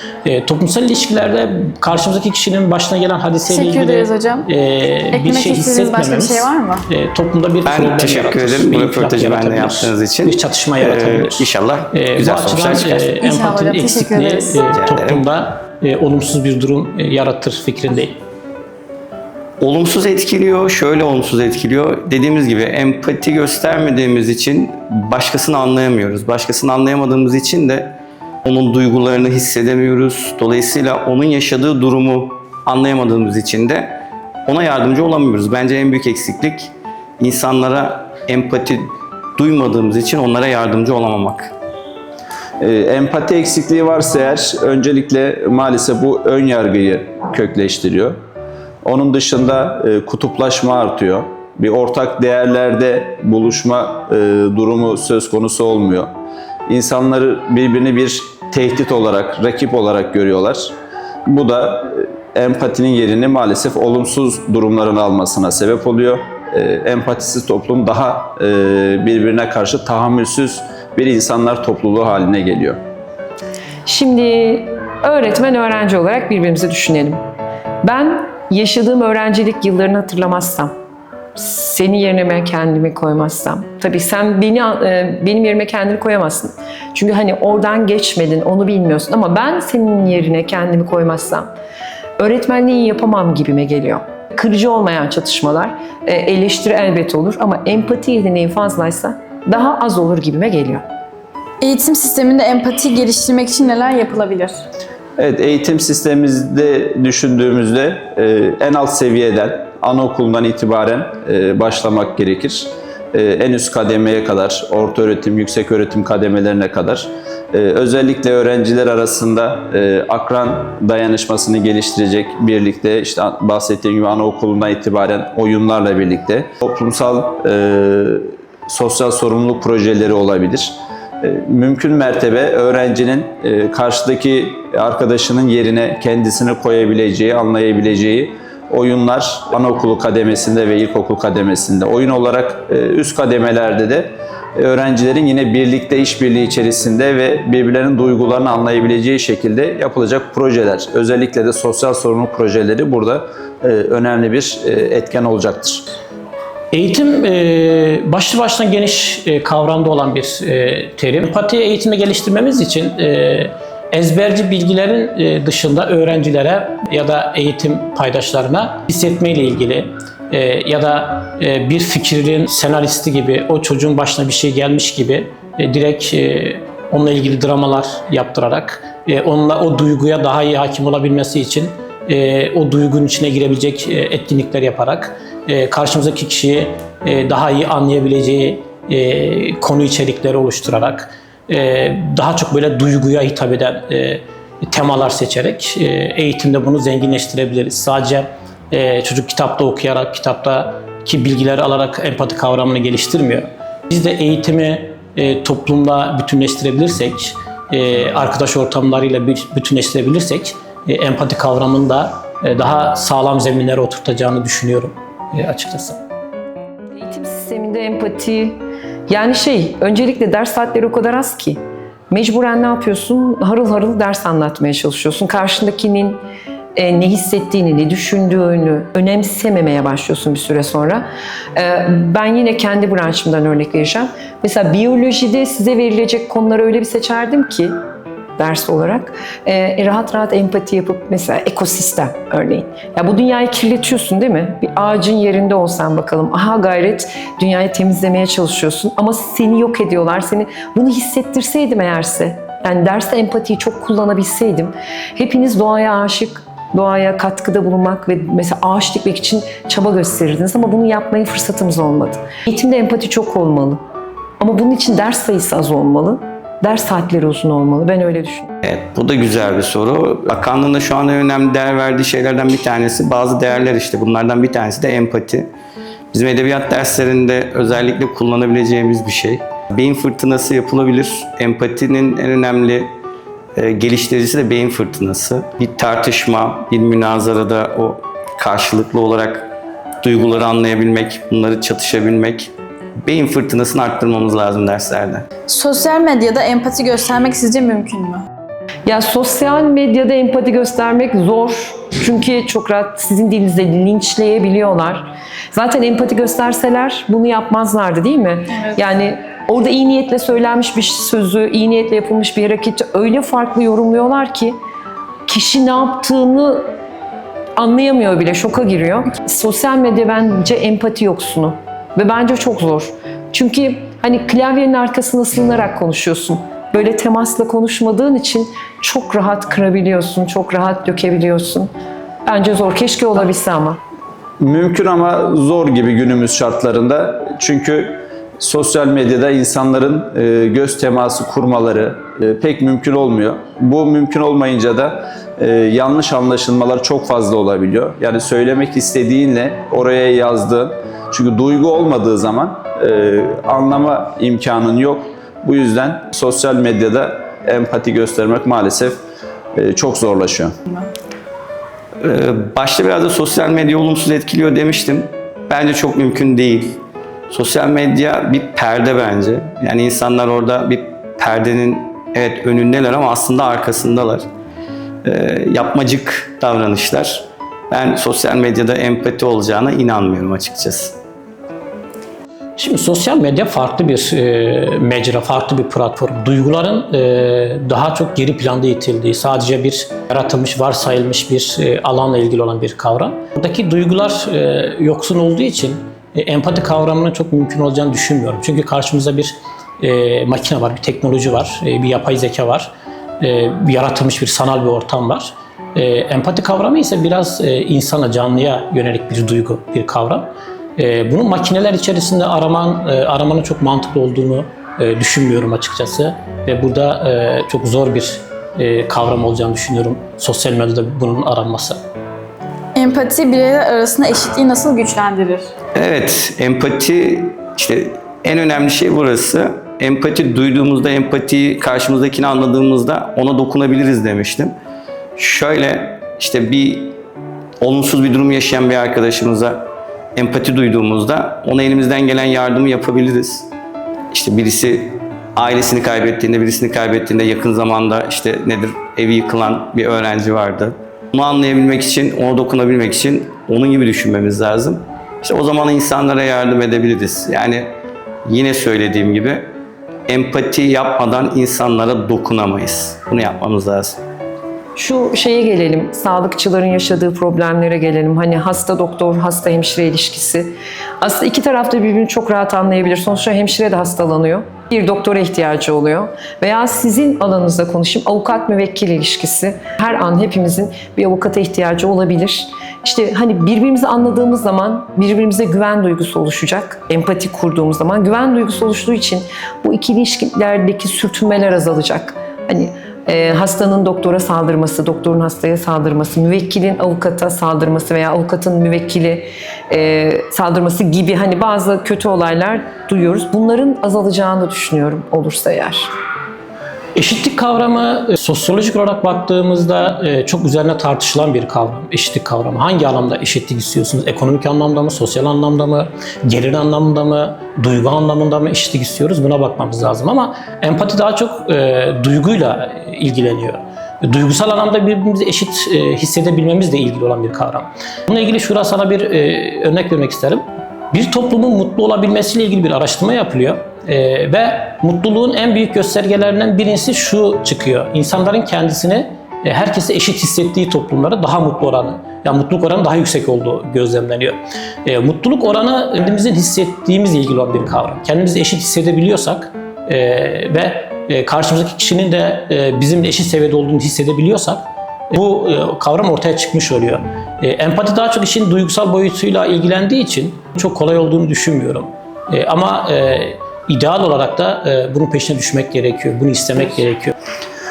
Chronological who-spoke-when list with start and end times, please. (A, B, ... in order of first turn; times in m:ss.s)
0:00.2-0:18.2 A
0:03.5-0:04.5 B
0:05.1-0:06.8 B
0:07.7-0:13.0 C
0:13.2-0:14.7 B
0:14.8-0:15.2 C
0:19.6-0:27.9 C
0:28.4-0:41.5 C
0:42.6-0:48.2 D
0:48.8-0:56.1 D
0:56.7-1:00.7 D
1:01.3-1:12.8 D
1:13.9-1:17.2 E
1:17.8-1:20.7 E
1:21.4-1:31.5 E
1:32.2-1:40.8 E
1:41.6-1:44.6 B
1:45.2-2:35.8 D
2:36.7-3:36.0 A
3:36.9-3:41.6 E
3:42.1-3:46.2 E
3:46.8-3:57.7 E
3:58.4-4:23.8 E
4:24.4-4:28.5 E
4:28.6-4:35.5 C
4:36.1-4:42.9 C
4:43.6-4:52.5 C
4:53.0-4:55.3 C
4:55.5-4:58.2 B
4:58.9-5:14.6 E
5:15.3-5:16.6 E
5:17.6-5:31.7 E
5:32.3-5:33.8 E
5:34.4-5:59.0 D
5:59.6-6:00.5 D
6:02.0-6:14.2 C
6:15.0-6:20.9 C
6:22.6-7:01.8 A
7:02.8-7:05.5 B
7:05.8-7:14.5 C
7:15.2-7:17.0 C
7:17.6-7:23.5 C
7:24.1-7:37.7 C
7:38.3-7:39.4 C
7:40.1-7:44.0 C
7:44.8-8:25.9 E
8:27.0-9:27.1 A